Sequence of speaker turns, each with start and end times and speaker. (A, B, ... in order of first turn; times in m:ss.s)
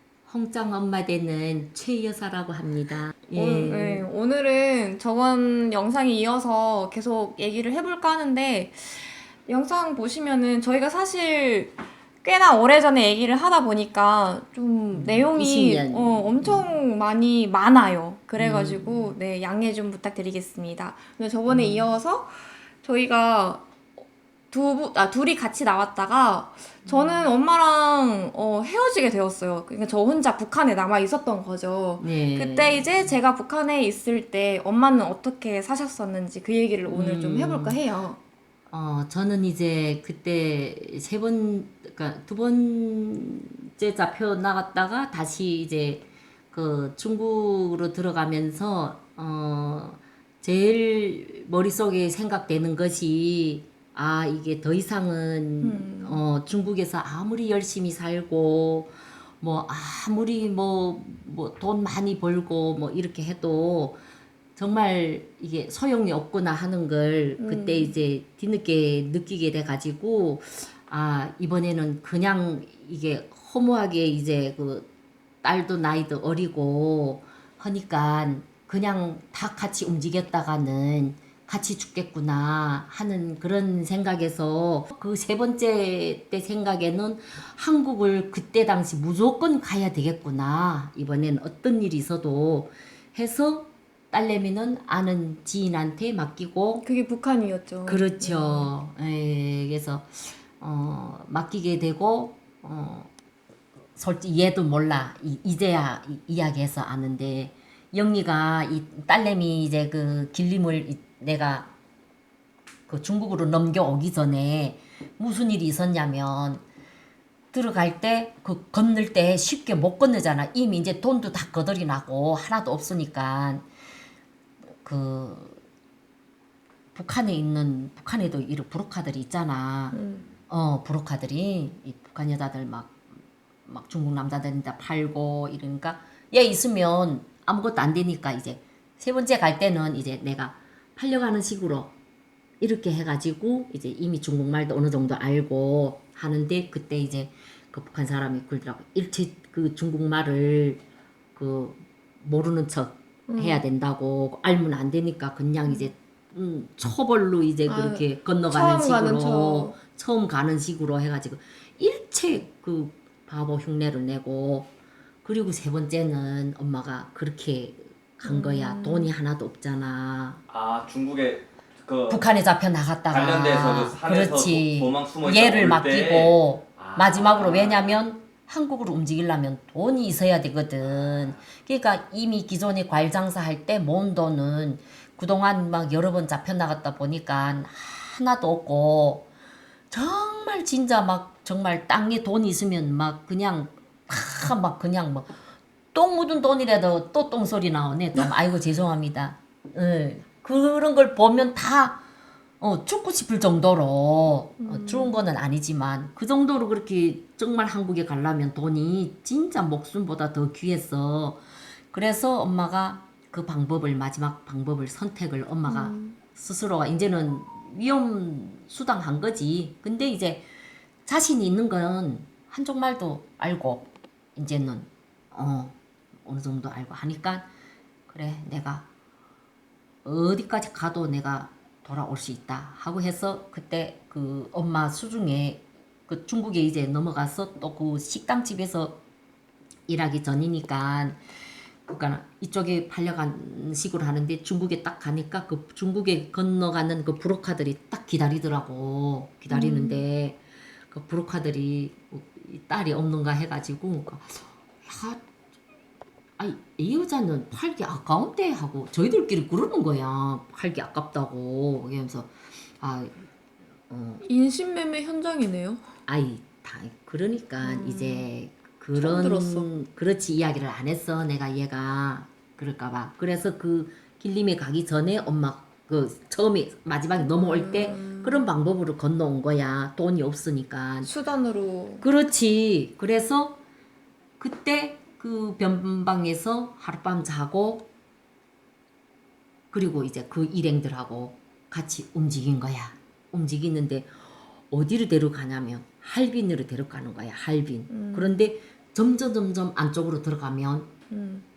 0:00.3-0:04.1 A
0:03.4-0:23.7 B
0:14.9-0:16.8 A
0:18.4-0:19.2 A
0:21.5-0:21.9 A
0:24.5-0:38.2 B
0:26.9-0:27.3 A
0:32.0-0:33.0 A
0:36.9-0:37.8 A
0:38.7-1:04.0 A
0:55.6-0:56.2 B
1:04.6-1:14.9 A
1:07.4-1:07.9 B
1:15.4-1:36.9 A
1:36.8-1:38.7 B
1:37.8-1:43.1 A
1:44.0-1:51.7 A
1:52.9-1:56.6 A
1:57.5-2:03.6 A
2:04.8-2:05.6 A
2:07.0-2:10.0 A
2:09.9-2:10.3 B
2:10.5-2:13.0 A
2:13.7-2:21.9 A
2:22.6-2:30.8 A
2:31.4-2:44.7 A
2:33.3-2:33.6 B
2:37.7-2:39.8 B
2:45.2-2:50.4 A
2:48.2-2:49.1 B
2:50.5-2:52.2 C
2:52.1-3:09.3 A
2:53.1-2:58.0 C
3:09.9-3:15.4 A
3:15.9-3:22.0 A
3:22.6-3:40.5 A
3:24.6-3:25.2 B
3:35.7-3:36.2 B
3:41.0-3:47.5 A
3:48.1-3:48.9 A
3:50.0-3:59.0 A
3:59.9-4:01.2 A
4:01.9-4:15.2 A
4:09.5-4:10.0 B
4:16.4-4:23.2 A
4:23.9-4:24.3 A
4:24.2-4:25.8 B
4:26.1-4:41.1 A
4:27.6-4:28.3 B
4:29.0-4:29.7 B
4:37.2-4:38.4 B
4:41.0-4:42.0 B
4:42.0-4:43.6 A
4:44.4-4:47.9 A
4:49.7-4:54.1 A
4:54.7-5:00.9 A
4:57.9-4:58.4 B
5:01.1-5:01.4 B